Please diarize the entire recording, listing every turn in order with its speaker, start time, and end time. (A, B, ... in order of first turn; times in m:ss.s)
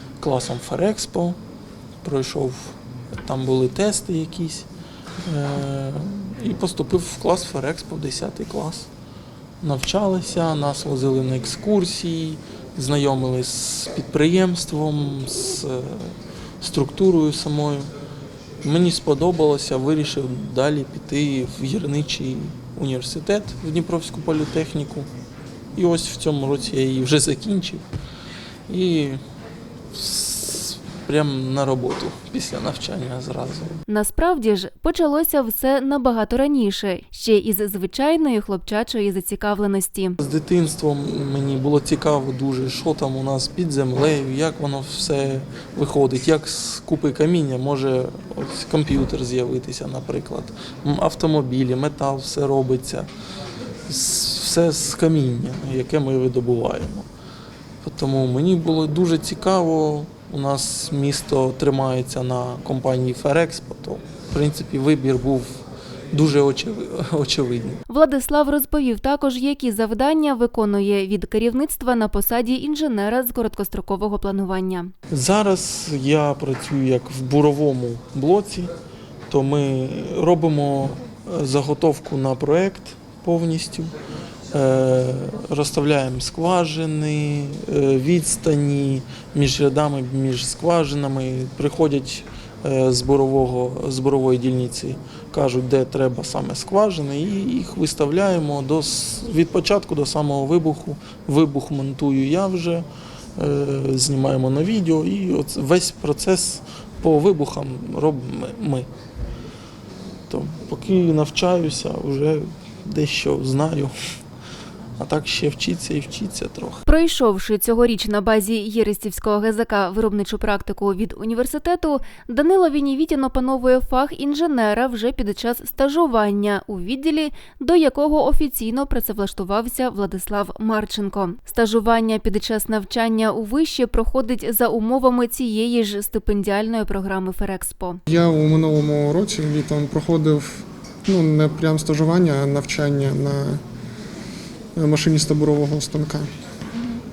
0:00.2-0:01.4 A
0:02.0-0:04.7 A
0:05.2-0:08.9 A
0:09.6-0:17.9 A
0:18.6-0:25.1 A
0:25.8-0:27.8 A
0:28.7-0:29.2 A
0:29.9-0:33.8 A
0:33.9-0:40.2 B
0:40.2-0:53.1 A
0:53.9-0:57.1 A
0:57.8-1:05.5 A
1:06.1-1:07.8 A
1:07.9-1:14.9 B
1:15.1-1:18.7 A
1:19.3-1:23.9 A
1:24.5-1:42.9 A
1:43.4-1:48.9 A
1:50.3-1:53.9 A
1:55.0-1:56.8 A
1:56.9-2:18.0 B
2:18.1-2:23.6 C
2:24.8-2:26.3 C